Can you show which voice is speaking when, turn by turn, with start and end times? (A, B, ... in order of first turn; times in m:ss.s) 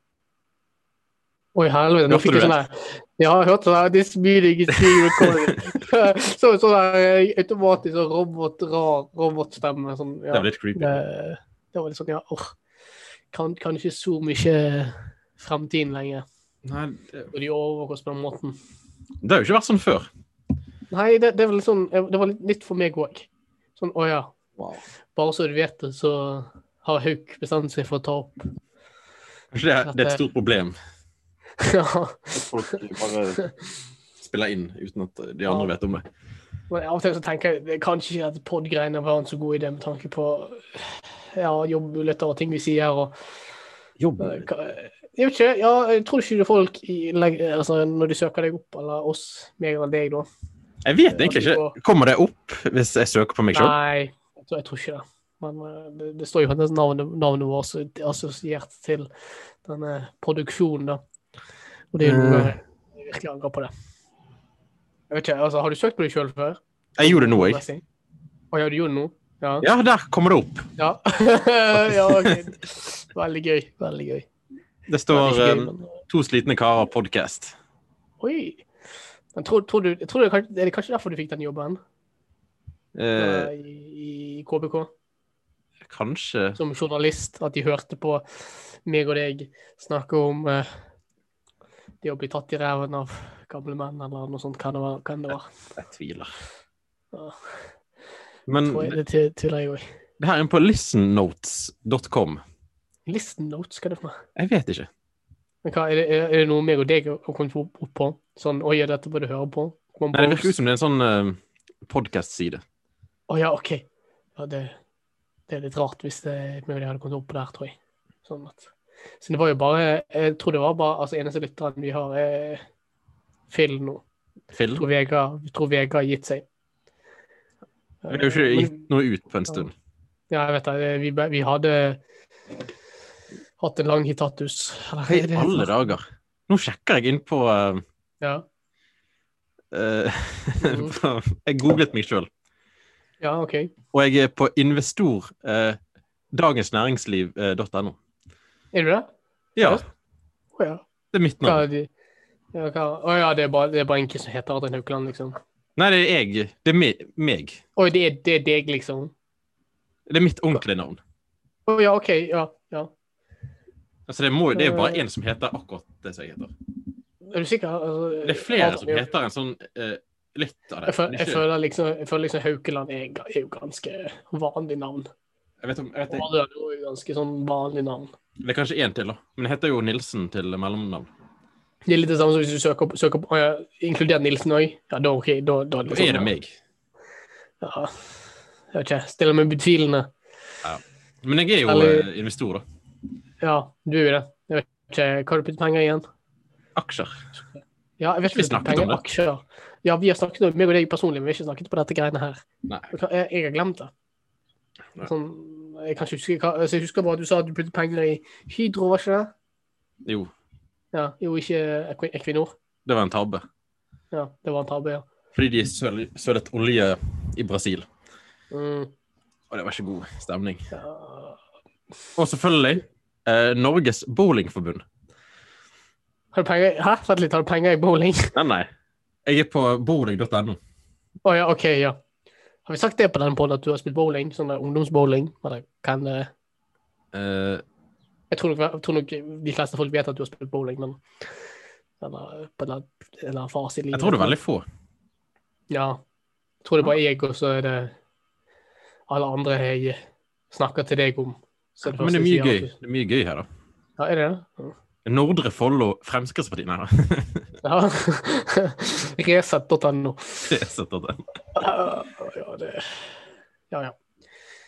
0:01.6-0:12.6 A
0:02.1-0:02.6 B
0:04.8-0:05.5 B
0:10.3-0:11.0 B
0:13.3-0:16.2 A
0:16.6-0:17.3 B
0:17.3-0:18.6 A
0:19.2-0:20.1 B
0:20.9-0:24.3 A
0:24.6-0:24.8 B
0:25.1-0:28.4 A
0:29.5-0:30.8 B
0:29.8-0:30.2 A
0:31.6-0:33.5 A
0:32.3-0:33.5 B
0:34.2-0:36.0 B
0:36.7-0:43.2 A
0:44.0-0:44.5 B
0:44.2-0:50.3 A
0:50.8-0:53.7 B
0:51.1-0:51.7 A
0:53.5-0:59.1 A
0:59.6-1:01.0 A
1:01.9-1:03.7 A
1:02.0-1:02.6 B
1:05.1-1:07.8 A
1:07.0-1:07.6 B
1:08.5-1:09.7 A
1:09.6-1:10.7 B
1:10.8-1:14.3 A
1:11.7-1:12.4 B
1:14.9-1:17.6 B
1:15.1-1:16.0 A
1:18.2-1:18.7 A
1:19.3-1:21.8 A
1:23.0-1:23.5 B
1:23.2-1:24.9 A
1:25.9-1:26.6 B
1:26.6-1:30.7 A
1:32.0-1:35.5 A
1:35.8-1:36.3 B
1:37.1-1:37.6 A
1:38.5-1:39.0 B
1:38.7-1:39.8 A
1:40.2-1:42.4 B
1:43.1-1:44.2 A
1:44.4-1:44.9 B
1:45.6-1:50.6 A
1:50.1-1:52.6 B
1:53.3-1:54.8 A
1:55.5-2:02.6 A
2:03.5-2:04.0 A
2:04.5-2:04.8 B
2:04.8-2:06.5 A
2:08.0-2:08.9 A
2:08.1-2:09.7 B
2:10.3-2:12.0 A
2:13.6-2:15.7 A
2:15.1-2:17.8 B
2:19.7-2:22.3 B
2:20.6-2:20.9 A
2:23.2-2:23.7 A
2:23.9-2:25.8 B
2:26.3-2:28.0 B
2:28.7-2:29.1 A
2:29.6-2:29.8 B
2:30.6-2:30.8 A
2:31.1-2:31.6 B
2:31.4-2:31.9 A
2:32.5-2:35.4 A
2:35.8-2:37.6 B
2:37.8-2:39.1 A
2:40.1-2:41.0 B
2:41.7-2:42.9 A
2:44.1-2:46.5 B
2:44.5-2:45.0 A
2:47.2-2:49.1 A
2:48.2-2:51.4 B
2:50.9-2:55.1 A
2:55.6-2:56.3 B
2:56.1-2:58.1 A
2:58.4-3:01.1 B
3:01.9-3:06.3 A
3:05.9-3:06.6 B
3:07.6-3:08.1 A
3:08.7-3:10.1 A
3:10.6-3:12.6 B
3:11.7-3:12.1 A
3:13.4-3:16.0 A
3:16.8-3:17.1 B
3:18.0-3:23.9 A
3:18.3-3:19.0 B
3:25.0-3:29.3 A
3:30.0-3:30.3 B
3:30.9-3:32.5 A
3:32.9-3:33.4 B
3:34.1-3:35.1 A
3:35.3-3:37.9 B
3:38.5-3:38.9 A
3:39.5-3:40.7 B
3:40.7-3:41.4 A
3:42.2-3:44.8 B
3:46.3-3:48.3 A
3:48.3-3:48.7 B
3:49.2-3:50.6 B
3:51.2-3:52.0 A
3:52.7-3:56.3 A
3:57.1-3:57.6 B
3:58.3-4:01.0 A
4:02.0-4:04.4 A
4:03.9-4:04.7 B
4:05.7-4:06.0 A
4:06.6-4:07.9 A
4:09.1-4:10.0 A
4:10.5-4:12.7 A
4:11.8-4:13.5 B
4:14.0-4:14.8 A
4:15.0-4:17.5 B
4:17.6-4:20.6 A
4:20.5-4:21.2 B
4:21.5-4:23.1 A